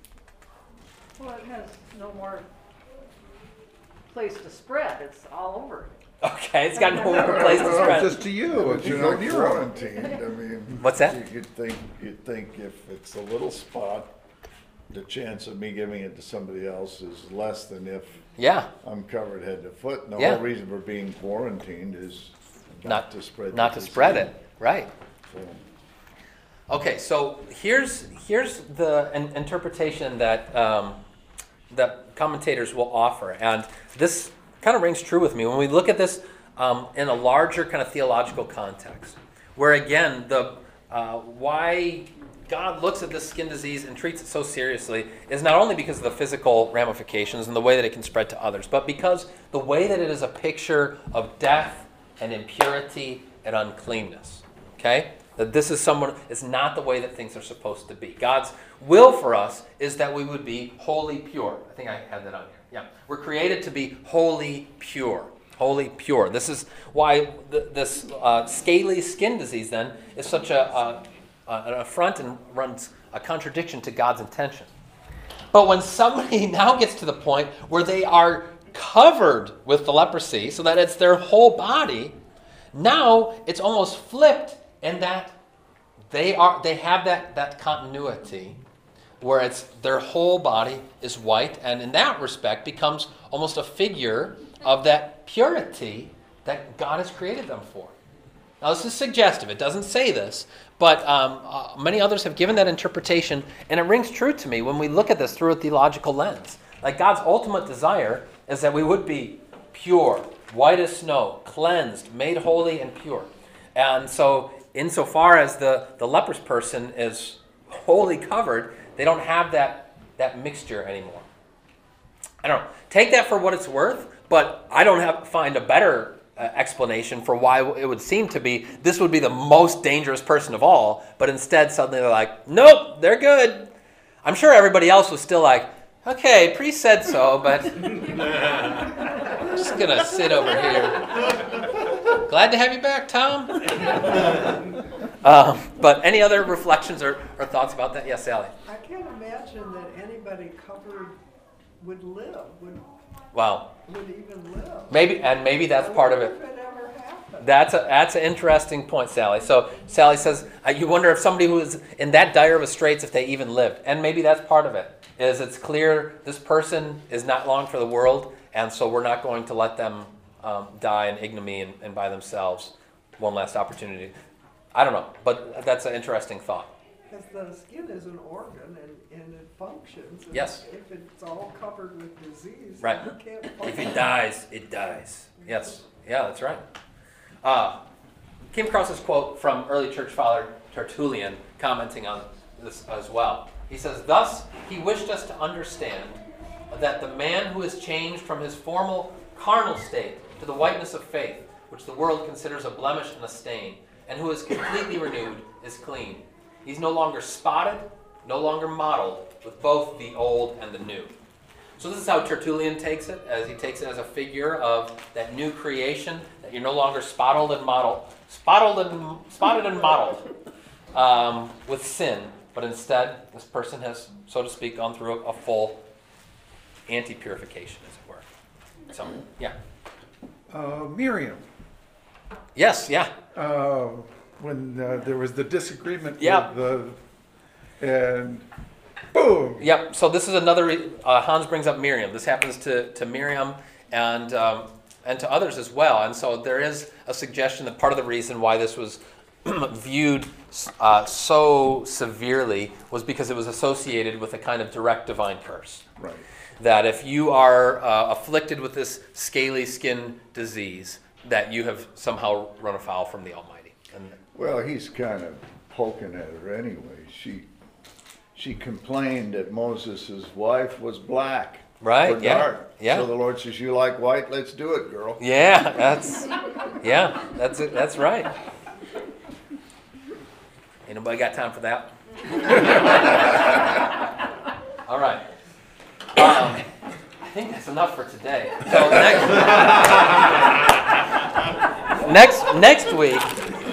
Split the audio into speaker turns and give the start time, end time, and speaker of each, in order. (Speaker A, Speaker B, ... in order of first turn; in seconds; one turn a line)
Speaker A: 1.2-2.5
Speaker A: 4.1-5.9
Speaker B: 6.2-8.2
Speaker A: 6.9-7.5
Speaker C: 7.0-9.7
Speaker D: 7.5-14.1
Speaker B: 10.8-11.2
Speaker D: 14.9-18.2
Speaker B: 18.4-18.7
Speaker D: 18.8-24.3
Speaker B: 20.2-20.4
Speaker B: 22.9-24.9
Speaker D: 25.3-25.6
Speaker B: 26.7-31.0
Speaker B: 31.7-74.7
Speaker B: 75.5-82.2
Speaker B: 82.7-85.3
Speaker B: 86.1-88.6
Speaker B: 89.2-97.9
Speaker B: 98.6-121.3
Speaker B: 122.4-133.7
Speaker B: 134.2-138.1
Speaker B: 139.4-141.4
Speaker B: 142.1-144.4
Speaker B: 145.2-148.5
Speaker E: 148.7-151.2
Speaker E: 151.8-152.9
Speaker B: 153.3-153.7
Speaker E: 153.9-157.5
Speaker B: 154.9-156.4
Speaker B: 157.4-174.1
Speaker B: 174.7-176.7
Speaker E: 177.1-184.0
Speaker B: 180.3-180.6
Speaker B: 182.8-183.1
Speaker B: 183.6-186.6
Speaker B: 187.4-187.8
Speaker B: 188.5-211.1
Speaker B: 211.8-220.3
Speaker B: 220.9-225.8
Speaker B: 226.9-228.3
Speaker B: 228.9-229.6
Speaker C: 230.5-231.4
Speaker B: 232.6-233.1
Speaker C: 233.3-237.0
Speaker B: 236.2-236.5
Speaker C: 237.8-238.5
Speaker C: 239.1-239.7
Speaker B: 239.6-255.9
Speaker D: 256.0-256.2
Speaker B: 256.6-264.2
Speaker D: 264.3-267.5
Speaker D: 268.4-275.2
Speaker B: 271.8-273.1
Speaker B: 275.2-278.3
Speaker B: 280.9-283.8
Speaker B: 284.9-285.2
Speaker B: 286.1-286.6
Speaker B: 287.2-290.2
Speaker B: 292.0-293.3